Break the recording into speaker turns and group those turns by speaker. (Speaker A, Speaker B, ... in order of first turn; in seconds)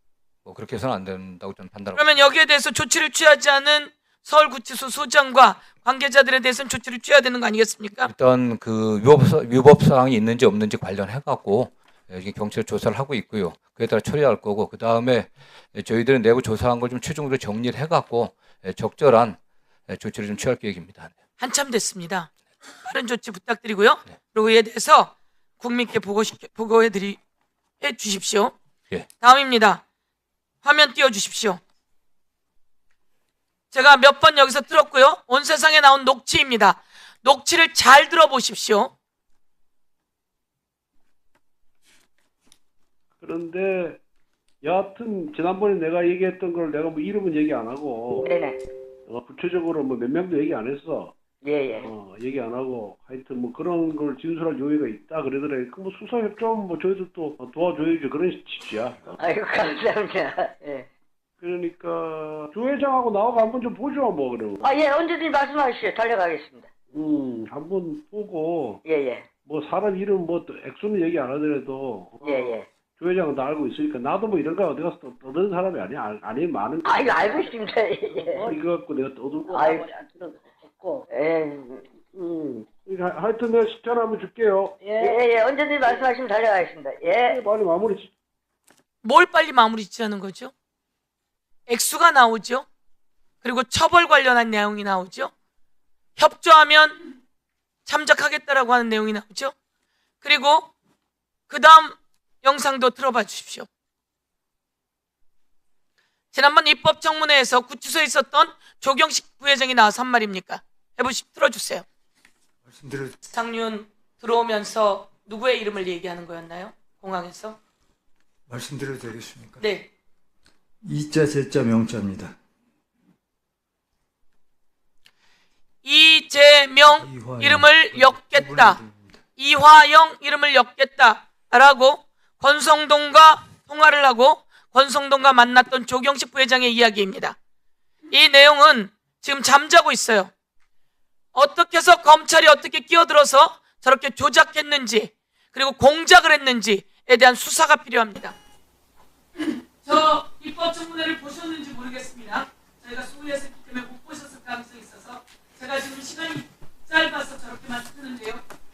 Speaker A: 0.4-2.0, 8.0-21.1
Speaker B: 1.9-8.1, 21.4-22.3, 22.8-27.2, 27.8-28.5, 29.2-29.8, 30.6-31.6, 33.7-38.9, 89.0-90.5, 91.7-92.7, 93.4-95.3, 96.2-97.0, 97.8-99.5, 100.2-100.7, 101.5-103.7, 106.3-111.8, 113.2-117.6, 119.6-119.9, 125.8-128.8, 129.3-137.3, 138.1-140.3, 141.3-148.3, 149.4-158.4
Speaker C: 43.2-44.0, 44.6-48.3, 49.1-51.1, 51.8-59.2, 61.4-64.8, 66.9-68.8, 69.4-79.9, 82.2-88.1
Speaker D: 48.2-48.6, 51.4-51.9, 59.2-60.9, 64.6-66.7, 68.8-69.3, 72.2-72.7, 76.8-78.5, 79.5-81.9, 84.8-87.4
Speaker E: 112.6-113.2, 118.5-119.7, 120.8-122.3, 127.0-129.2